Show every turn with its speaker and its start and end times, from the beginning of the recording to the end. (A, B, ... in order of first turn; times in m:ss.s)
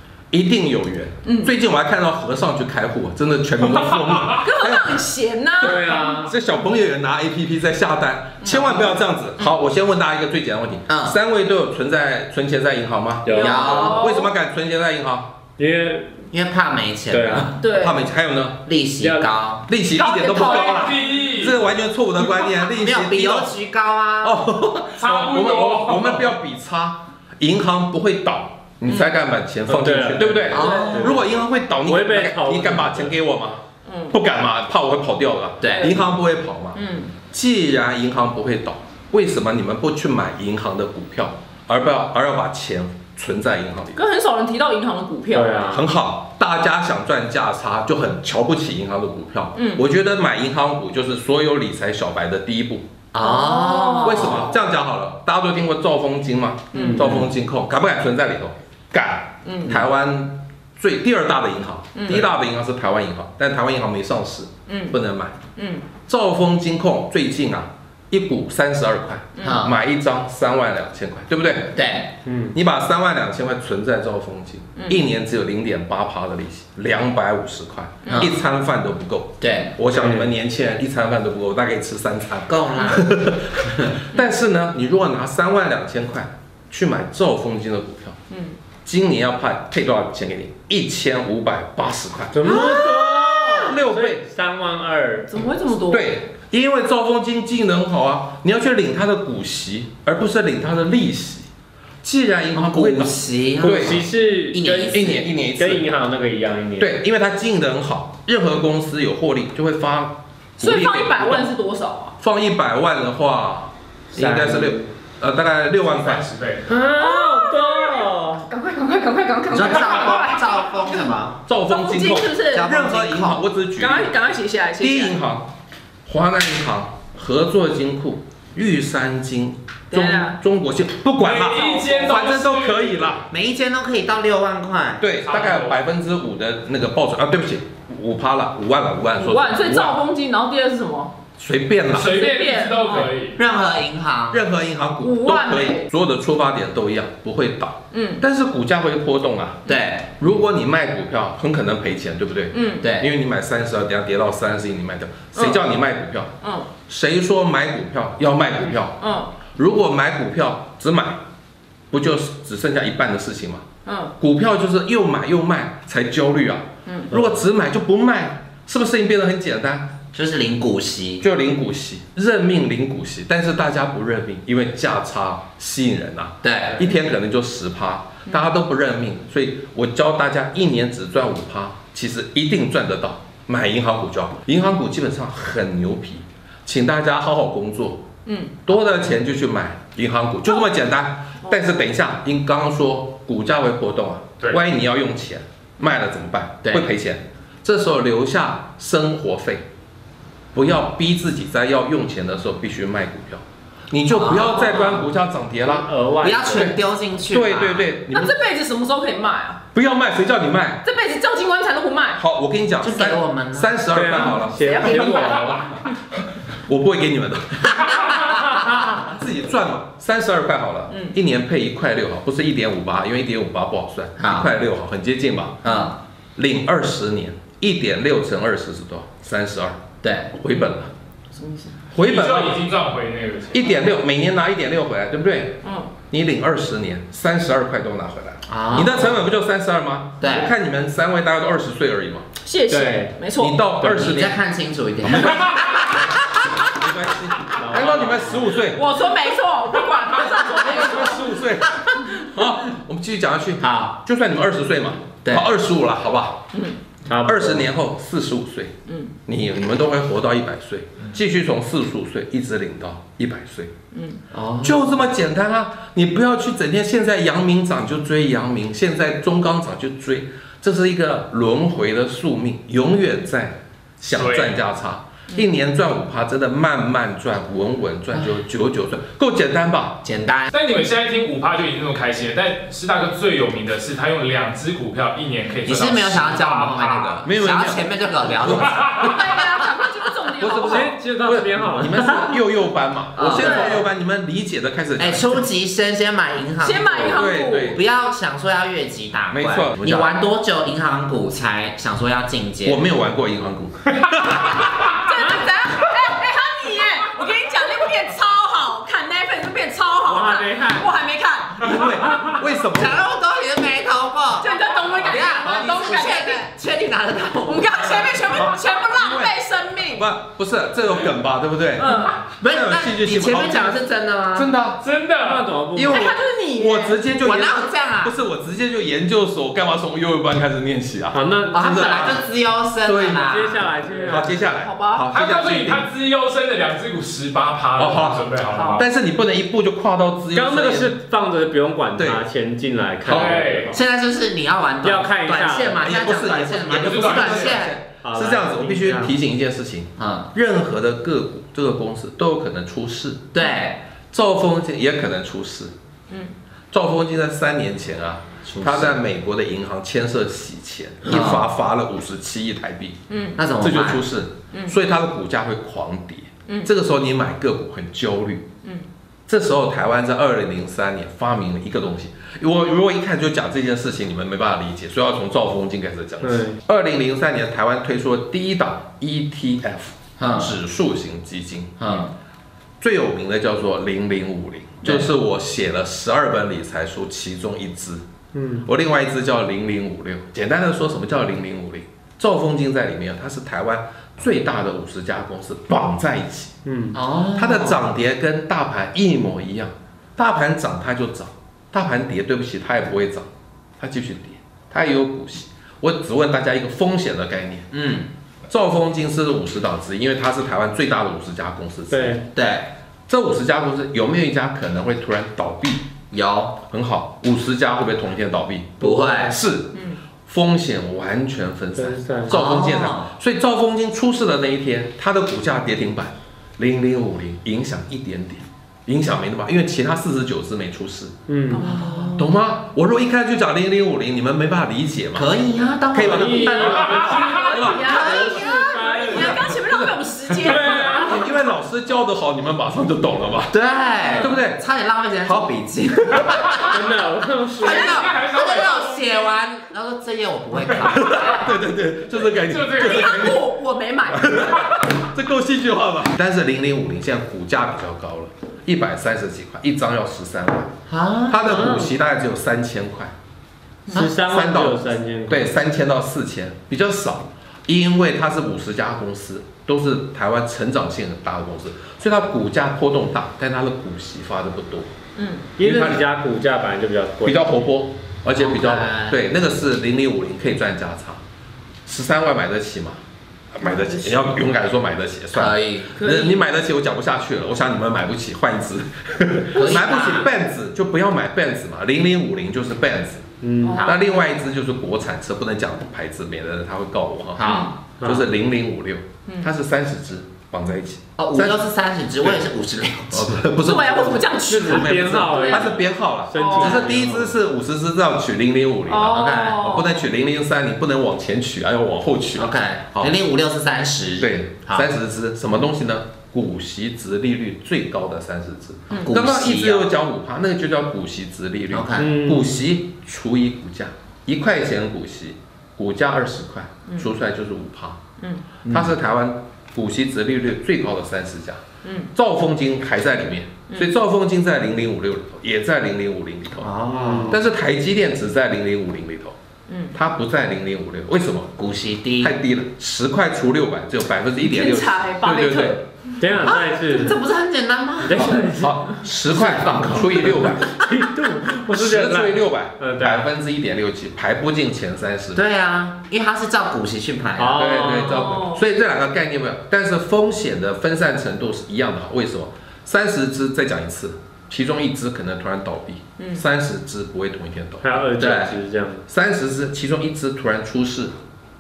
0:00.3-0:05.0 A
0:01.3-0:01.5 B
0:03.8-0:04.3 C
0:04.4-0:06.0 B
0:05.6-0:06.3 D
0:06.0-0:15.3 A
0:08.4-0:08.9 B
0:10.9-0:11.2 E
0:13.2-0:14.0 D
0:13.3-0:14.3 B
0:13.3-0:13.9 E
0:15.6-0:16.2 D
0:16.3-0:17.6 E
0:17.1-0:17.5 D
0:17.6-0:18.0 B
0:17.7-0:18.6 A
0:18.6-0:19.7 E
0:19.0-0:19.3 D
0:19.7-0:23.5 A
0:20.0-0:21.4 B
0:20.3-0:21.6 C
0:22.2-0:24.4 E
0:24.2-0:44.0 A
0:25.0-0:26.3 C
0:29.7-0:31.2 D
0:30.5-0:31.2 E
0:30.6-0:31.0 B
0:31.8-0:33.2 D
0:33.8-0:34.2 B
0:35.6-0:36.0 E
0:35.7-0:36.0 B
0:36.7-0:37.2 B
0:44.0-0:45.8 B
0:45.3-0:45.8 D
0:45.7-0:52.8 A
0:49.6-0:49.8 B
0:53.1-0:54.4 E
0:53.2-0:54.6 B
0:54.0-1:05.4 A
0:56.7-0:57.2 B
0:59.4-0:59.8 B
1:02.0-1:02.3 B
1:04.7-1:05.0 B
1:05.6-1:05.9 B
1:06.1-1:11.8 A
1:09.4-1:09.6 B
1:09.4-1:09.8 E
1:11.7-1:12.1 E
1:12.2-1:12.6 D
1:12.5-1:28.2 A
1:14.8-1:15.0 B
1:18.1-1:18.3 B
1:18.1-1:18.3 E
1:19.4-1:19.7 E
1:19.9-1:20.3 D
1:22.5-1:23.1 E
1:28.3-1:28.6 B
1:28.8-1:34.2 A
1:32.3-1:35.3 D
1:35.3-1:36.1 B
1:35.8-1:41.5 A
1:42.0-1:44.0 A
1:42.5-1:45.2 E
1:43.6-1:46.9 D
1:44.9-1:45.9 A
1:46.8-1:51.5 A
1:50.6-1:52.1 B
1:52.2-1:56.2 A
1:54.1-1:54.9 D
1:55.8-1:56.7 C
1:56.7-1:58.5 D
1:57.0-2:01.0 B
1:59.5-2:01.4 E
2:01.5-2:04.1 A
2:01.7-2:02.7 B
2:02.4-2:03.4 E
2:03.8-2:05.2 B
2:04.8-2:05.5 A
2:06.1-2:13.2 A
2:09.9-2:10.4 B
2:11.2-2:13.2 C
2:11.4-2:12.2 B
2:13.3-2:15.0 E
2:15.0-2:20.0 A
2:15.2-2:15.8 C
2:19.2-2:21.1 B
2:21.4-2:22.1 A
2:21.9-2:23.4 C
2:22.1-2:23.1 B
2:23.3-2:24.4 E
2:24.3-2:29.6 A
2:25.0-2:25.9 B
2:27.9-2:28.2 B
2:29.7-2:30.1 E
2:30.1-2:36.3 A
2:32.5-2:32.9 B
2:32.8-2:33.1 E
2:35.3-2:35.6 B
2:36.4-2:36.7 B
2:36.8-2:39.0 A
2:39.0-2:39.4 B
2:39.5-2:41.2 A
2:41.9-2:43.6 A
2:43.8-2:44.1 B
2:44.2-2:50.0 A
2:46.8-2:47.2 B
2:50.1-2:51.2 E
2:51.2-3:08.1 A
2:56.4-2:56.8 E
3:08.2-3:08.8 B
3:08.7-3:19.7 A
3:10.4-3:10.8 B
3:11.4-3:11.9 B
3:20.6-3:25.9 A
3:24.1-3:25.1 E
3:25.6-3:26.7 D
3:26.2-3:27.9 E
3:26.5-3:28.3 A
3:28.1-3:29.6 B
3:29.7-3:30.8 A
3:30.8-3:32.2 B
3:32.2-3:45.6 A
3:32.8-3:33.7 E
3:33.9-3:35.6 D
3:34.2-3:35.9 B
3:40.9-3:41.2 B
3:44.2-3:44.5 E
3:45.6-3:46.0 E
3:45.6-3:45.9 B
3:46.4-3:49.8 A
3:50.0-3:50.3 E
3:50.3-3:50.9 A
3:51.3-3:51.8 B
3:51.9-3:52.6 A
3:52.0-3:53.7 C
3:53.5-4:02.2 A
3:55.6-3:55.9 B
3:58.5-3:59.2 E
4:00.2-4:00.5 E
4:02.4-4:03.7 B
4:02.7-4:03.1 D
4:03.4-4:04.4 A
4:03.8-4:06.6 E
4:05.2-4:05.6 A
4:06.8-4:08.8 A
4:07.6-4:08.5 D
4:08.7-4:11.4 B
4:10.5-4:16.4 A
4:13.6-4:14.0 E
4:15.2-4:15.5 E
4:16.5-4:16.8 B
4:17.0-4:17.7 D
4:17.2-4:18.7 A
4:18.9-4:19.2 B
4:19.2-4:23.7 A
4:23.9-4:24.2 B
4:24.3-4:24.9 E
4:24.6-4:40.0 A
4:34.1-4:34.6 C
4:40.0-4:40.5 E
4:40.5-4:47.2 C
4:45.6-4:49.4 E
4:47.2-4:49.4 A
4:49.0-4:50.9 B
4:50.4-4:55.4 A
4:50.6-4:52.4 D
4:53.2-4:53.8 E
4:53.3-4:53.9 B
4:55.0-4:57.2 E
4:56.6-4:57.8 B
4:57.0-4:57.8 A
4:57.7-5:02.8 E
4:59.3-5:00.1 A
5:02.6-5:04.9 A
5:04.9-5:12.2 B
5:10.1-5:10.9 D
5:11.6-5:13.0 A
5:12.7-5:18.2 E
5:14.4-5:16.5 B
5:15.4-5:15.8 A
5:17.4-5:20.1 B
5:18.3-5:19.3 A
5:19.9-5:23.8 A
5:21.8-5:22.2 B
5:22.2-5:24.5 E
5:24.3-5:24.8 A
5:24.8-5:25.5 C
5:25.2-5:26.0 D
5:25.7-5:32.2 A
5:25.8-5:27.1 B
5:27.2-5:28.1 E
5:31.1-5:32.1 D
5:31.5-5:33.6 E
5:32.9-5:33.4 A
5:32.9-5:34.5 D
5:34.1-5:35.9 A
5:34.6-5:35.1 B
5:35.1-5:38.9 C
5:37.8-5:40.9 A
5:38.4-5:38.8 B
5:40.3-5:43.8 D
5:42.0-5:42.2 A
5:43.0-5:43.4 A
5:43.1-5:43.8 C
5:43.7-5:47.8 E
5:44.8-5:45.9 D
5:45.8-5:53.3 A
5:46.7-5:47.6 C
5:48.0-5:49.2 D
5:50.0-5:50.3 E
5:53.3-5:53.8 E
5:54.1-5:55.7 A
5:56.7-6:03.0 A
5:58.4-5:59.0 E
6:01.0-6:01.4 E
6:03.1-6:03.4 B
6:03.4-6:04.1 E
6:03.6-6:08.4 A
6:09.3-6:22.0 A
6:16.2-6:16.6 D
6:20.2-6:20.5 E
6:21.8-6:22.1 E
6:22.8-6:28.0 A
6:28.3-6:28.7 D
6:28.6-6:36.6 A
6:36.6-6:37.0 D
6:36.9-6:37.9 E
6:37.3-6:47.7 A
6:47.7-6:48.1 E
6:48.5-6:52.2 A
6:51.9-6:52.2 D
6:52.3-6:52.7 E
6:53.1-6:55.9 A
6:56.1-6:56.6 E
6:56.7-7:11.1 A
6:58.8-6:59.3 E
6:58.8-6:59.2 D
6:59.8-7:00.0 B
7:01.8-7:02.4 D
7:02.3-7:03.1 E
7:11.3-7:11.7 D
7:11.5-7:12.1 B
7:11.5-7:12.3 E
7:12.2-7:15.3 A
7:15.1-7:18.4 E
7:15.9-7:16.4 A
7:16.0-7:19.5 D
7:16.4-7:21.3 B
7:16.9-7:17.3 C
7:17.5-7:18.0 A
7:19.0-7:23.5 A
7:20.4-7:21.2 D
7:23.5-7:26.8 E
7:24.0-7:24.4 B
7:24.2-7:24.6 A
7:25.2-7:25.5 A
7:26.1-7:26.4 A
7:26.7-7:28.2 D
7:27.6-7:31.4 E
7:27.6-7:29.4 C
7:30.8-7:33.4 A
7:32.1-7:33.2 C
7:32.8-7:34.8 B
7:34.1-7:40.7 A
7:40.9-7:41.4 E
7:41.3-7:43.1 A
7:41.4-7:41.9 D
7:43.9-7:44.1 B
7:43.9-7:45.5 D
7:44.2-7:54.9 A
7:55.2-7:55.5 B
7:55.6-7:57.5 D
7:55.6-7:56.0 A
7:57.2-8:01.2 A
7:58.4-7:59.2 E
8:01.9-8:03.0 A
8:03.5-8:13.2 A
8:03.6-8:04.4 B
8:05.3-8:06.0 E
8:06.0-8:06.4 B
8:09.6-8:10.3 E
8:09.6-8:10.2 B
8:13.4-8:13.8 D
8:13.6-8:14.1 B
8:13.8-8:17.4 A
8:17.4-8:17.8 E
8:17.4-8:17.8 B
8:18.0-8:18.2 D
8:18.0-8:21.6 A
8:21.2-8:23.4 E
8:23.1-8:33.1 A
8:23.6-8:25.8 B
8:24.5-8:27.4 D
8:26.3-8:26.8 B
8:28.9-8:30.1 B
8:29.1-8:29.6 E
8:32.4-8:34.9 E
8:34.2-8:48.0 A
8:38.9-8:39.9 E
8:41.7-8:42.1 E
8:42.0-8:42.6 D
8:48.2-8:48.5 B
8:48.6-8:49.0 E
8:48.7-8:51.6 A
8:51.8-8:52.1 B
8:52.1-8:56.7 A
8:56.6-8:57.4 E
8:56.9-8:57.4 D
8:57.3-8:59.4 A
8:59.7-9:00.0 B
8:59.9-9:01.6 A
9:01.6-9:02.3 E
9:02.2-9:05.8 A
9:04.4-9:06.2 B
9:06.2-9:07.2 D
9:06.4-9:08.3 E
9:08.0-9:08.8 D
9:08.1-9:10.7 A
9:09.3-9:10.4 E
9:09.6-9:13.3 D
9:11.7-9:15.4 A
9:15.4-9:17.6 E
9:17.4-9:18.3 D
9:17.6-9:31.2 A
9:17.9-9:18.6 B
9:26.2-9:26.4 B
9:27.8-9:29.0 D